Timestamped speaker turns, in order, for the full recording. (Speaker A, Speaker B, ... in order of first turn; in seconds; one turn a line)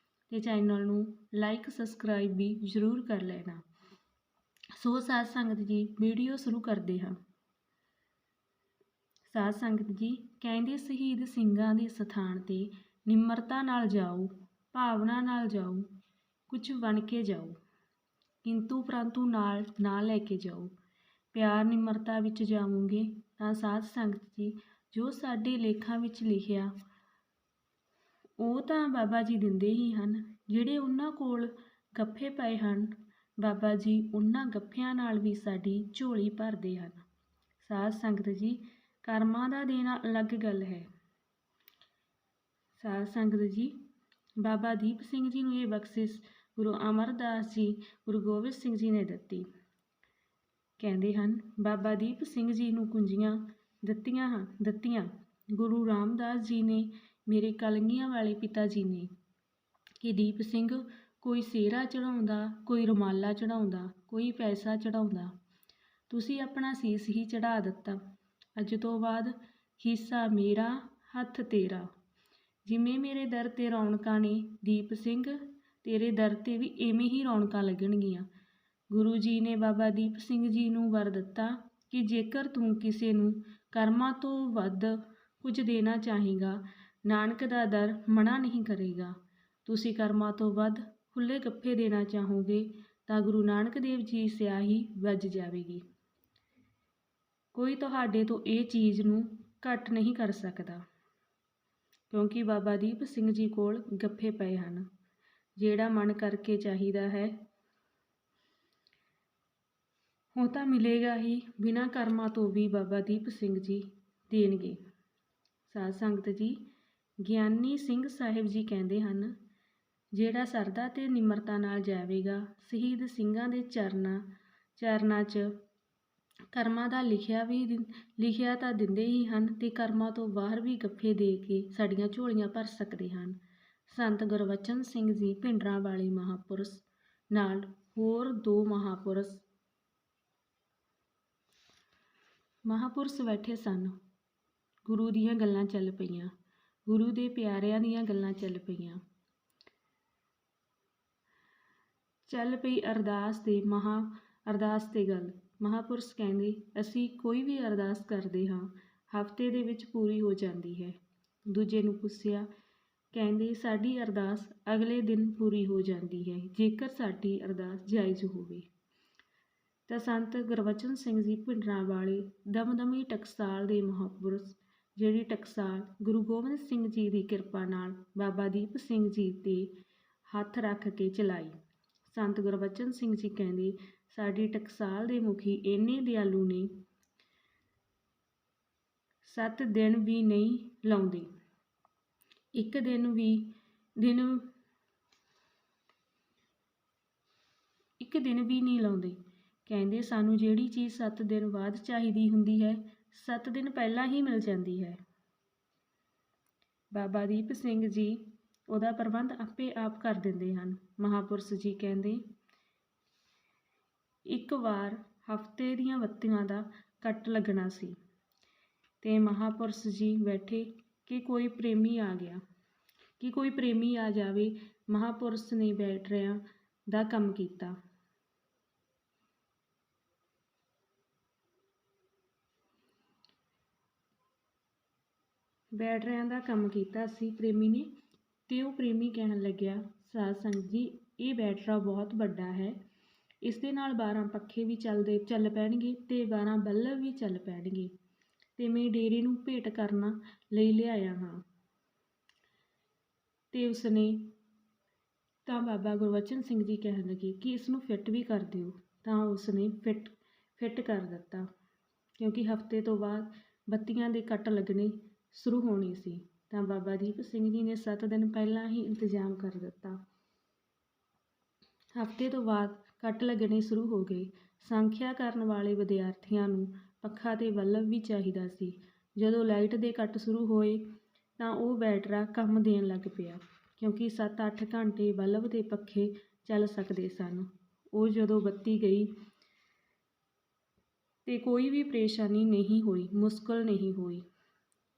Speaker A: 0.3-3.6
Speaker A: 4.8-7.2
Speaker A: 9.3-15.9
Speaker A: 16.5-17.6
Speaker A: 18.4-20.7
Speaker A: 21.3-26.7
Speaker A: 28.4-37.0
Speaker A: 37.6-40.9
Speaker A: 42.8-43.8
Speaker A: 44.4-49.5
Speaker A: 50.8-59.1
Speaker A: 60.0-65.4
Speaker A: 66.1-68.0
Speaker A: 68.6-71.9
Speaker A: 72.7-78.3
Speaker A: 78.9-89.1
Speaker A: 89.7-95.8
Speaker A: 97.5-100.8
Speaker A: 102.1-104.9
Speaker A: 105.6-107.4
Speaker A: 110.4-114.8
Speaker A: 115.7-116.6
Speaker A: 117.2-119.3
Speaker A: 120.1-125.6
Speaker A: 126.5-139.4
Speaker A: 142.7-144.0
Speaker A: 144.9-146.3
Speaker A: 146.9-149.0
Speaker A: 152.3-161.0
Speaker A: 161.5-162.5
Speaker A: 163.1-168.7
Speaker A: 169.9-179.8
Speaker A: 180.3-181.6
Speaker A: 182.1-186.8
Speaker A: 189.2-191.3
Speaker A: 192.6-194.5
Speaker A: 198.0-205.0
Speaker A: 206.9-212.2
Speaker A: 214.3-218.0
Speaker A: 219.0-222.4
Speaker A: 223.2-227.8
Speaker A: 235.8-237.9
Speaker A: 238.5-242.8
Speaker A: 243.4-247.9
Speaker A: 248.6-251.4
Speaker A: 253.5-254.3
Speaker A: 255.5-261.5
Speaker A: 262.2-270.0
Speaker A: 272.0-289.1
Speaker A: 291.3-294.2